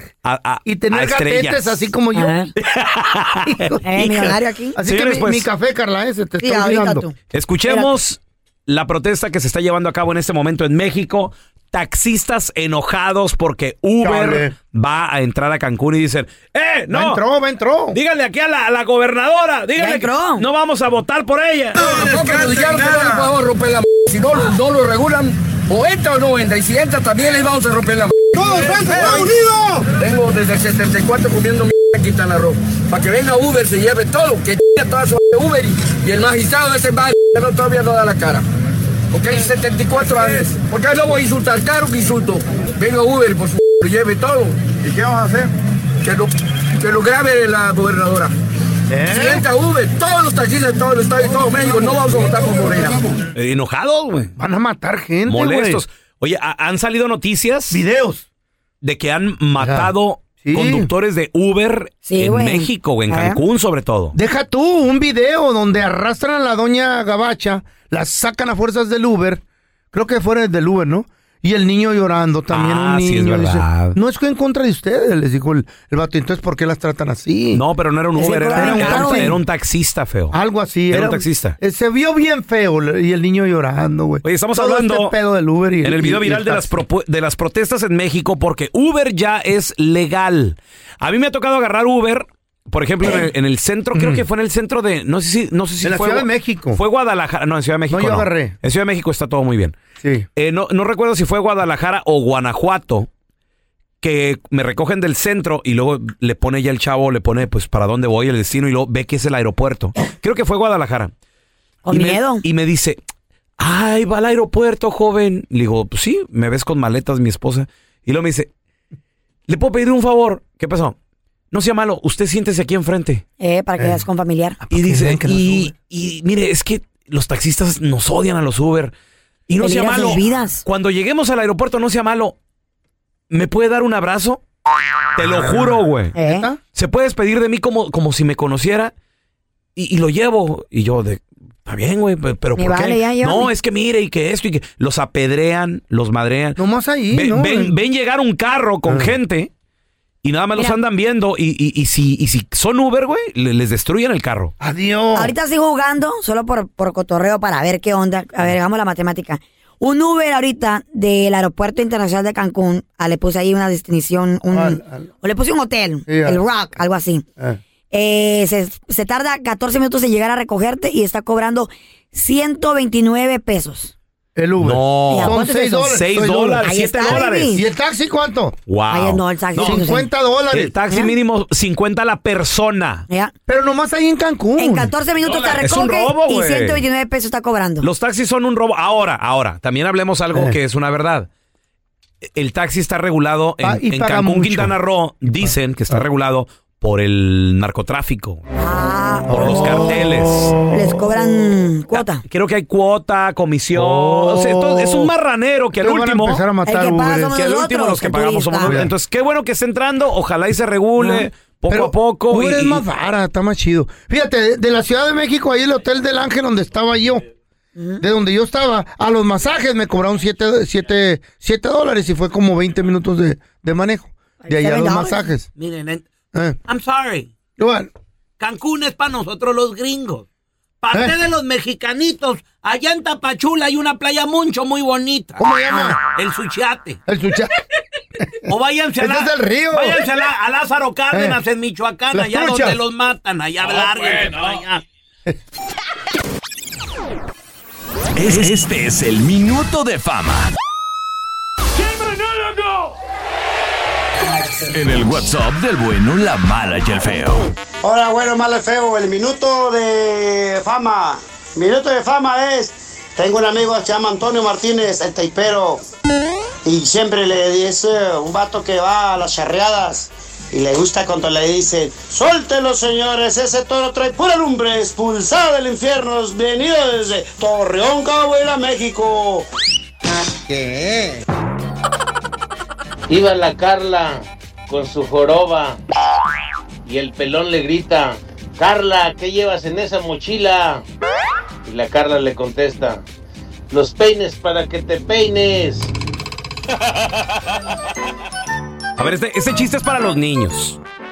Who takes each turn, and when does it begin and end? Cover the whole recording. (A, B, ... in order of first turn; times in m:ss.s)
0:00.2-0:01.8 A
0:00.7-0:02.3 B
0:02.2-0:02.5 C
0:02.6-0:04.3 A
0:03.5-0:07.1 B
0:03.8-0:04.8 C
0:04.9-0:05.5 A
0:06.4-0:07.1 C
0:07.3-0:17.2 A
0:07.7-0:07.9 C
0:14.0-0:14.5 B
0:16.9-0:18.0 B
0:17.9-0:23.1 A
0:19.8-0:20.4 C
0:21.8-0:29.3 D
0:28.3-0:29.8 B
0:30.0-0:38.4 D
0:39.1-0:44.9 D
0:44.9-0:45.4 B
0:46.0-0:48.3 D
0:48.9-0:49.4 B
0:49.0-0:53.0 D
0:53.4-0:54.3 A
0:54.4-0:55.8 B
0:55.2-0:57.8 A
0:57.7-0:58.3 B
0:58.8-1:04.2 A
0:59.6-1:00.9 B
1:02.0-1:03.4 C
1:04.1-1:09.4 B
1:09.9-1:17.6 B
1:12.5-1:14.0 A
1:17.5-1:20.4 A
1:18.2-1:19.4 C
1:18.5-1:19.4 B
1:20.3-1:26.8 B
1:20.9-1:21.6 A
1:24.2-1:25.1 A
1:25.8-1:39.8 A
1:33.9-1:34.2 B
1:35.8-1:36.8 B
1:37.9-1:38.6 B
1:40.0-1:40.3 B
1:40.4-1:43.1 A
1:44.0-1:51.1 A
1:51.9-1:52.4 C
1:51.9-1:53.0 A
1:53.6-1:58.5 A
1:59.5-2:01.0 A
2:01.5-2:03.2 A
2:03.4-2:04.6 C
2:03.8-2:04.0 B
2:04.7-2:05.7 B
2:04.7-2:08.9 A
2:09.5-2:12.4 A
2:09.6-2:10.6 C
2:13.3-2:14.4 A
2:15.2-2:16.2 A
2:16.1-2:16.5 C
2:16.2-2:16.6 B
2:16.7-2:18.9 A
2:19.8-2:26.6 A
2:22.6-2:23.5 C
2:26.6-2:27.8 B
2:27.1-2:29.5 A
2:28.9-2:29.1 B
2:30.2-2:34.5 A
2:34.6-2:35.3 B
2:35.2-2:47.2 C
2:44.5-2:45.1 B
2:46.1-2:46.4 B
2:47.9-2:53.9 C
2:54.4-2:58.6 B
2:54.6-2:57.6 A
2:55.1-2:56.0 C
2:56.6-2:57.7 C
2:58.7-2:59.9 A
2:58.9-3:00.1 C
2:59.6-3:00.8 B
3:00.5-3:03.1 A
3:03.5-3:04.9 B
3:04.6-3:07.9 C
3:05.2-3:06.8 A
3:07.8-3:11.3 A
3:12.4-3:18.4 A
3:13.6-3:14.7 B
3:15.3-3:16.0 B
3:18.6-3:19.5 C
3:19.3-3:20.9 B
3:19.3-3:20.6 A
3:20.7-3:22.2 C
3:21.9-3:26.4 A
3:23.8-3:25.1 B
3:25.8-3:27.4 B
3:26.6-3:28.8 C
3:27.3-3:32.8 A
3:28.6-3:28.9 B
3:31.0-3:37.2 B
3:37.8-3:38.0 C
3:38.0-3:45.5 B
3:44.4-3:45.2 C
3:45.6-3:46.1 E
3:46.7-3:47.3 E
3:47.6-3:47.9 B
3:48.4-3:50.3 E
3:50.8-3:57.0 E
3:55.4-3:56.0 B
3:57.1-3:57.5 B
3:58.5-4:04.8 E
3:59.0-4:00.0 B
4:01.1-4:01.4 B
4:02.1-4:02.8 B
4:08.2-4:10.5 F
4:14.6-4:17.5 F
4:17.8-4:25.8 G
4:26.6-4:39.5 G
4:40.5-4:41.0 G
4:43.1-4:45.8 H
4:46.8-4:50.8 H
4:51.6-4:53.0 H
4:53.7-4:55.9 H
4:59.0-5:00.8 A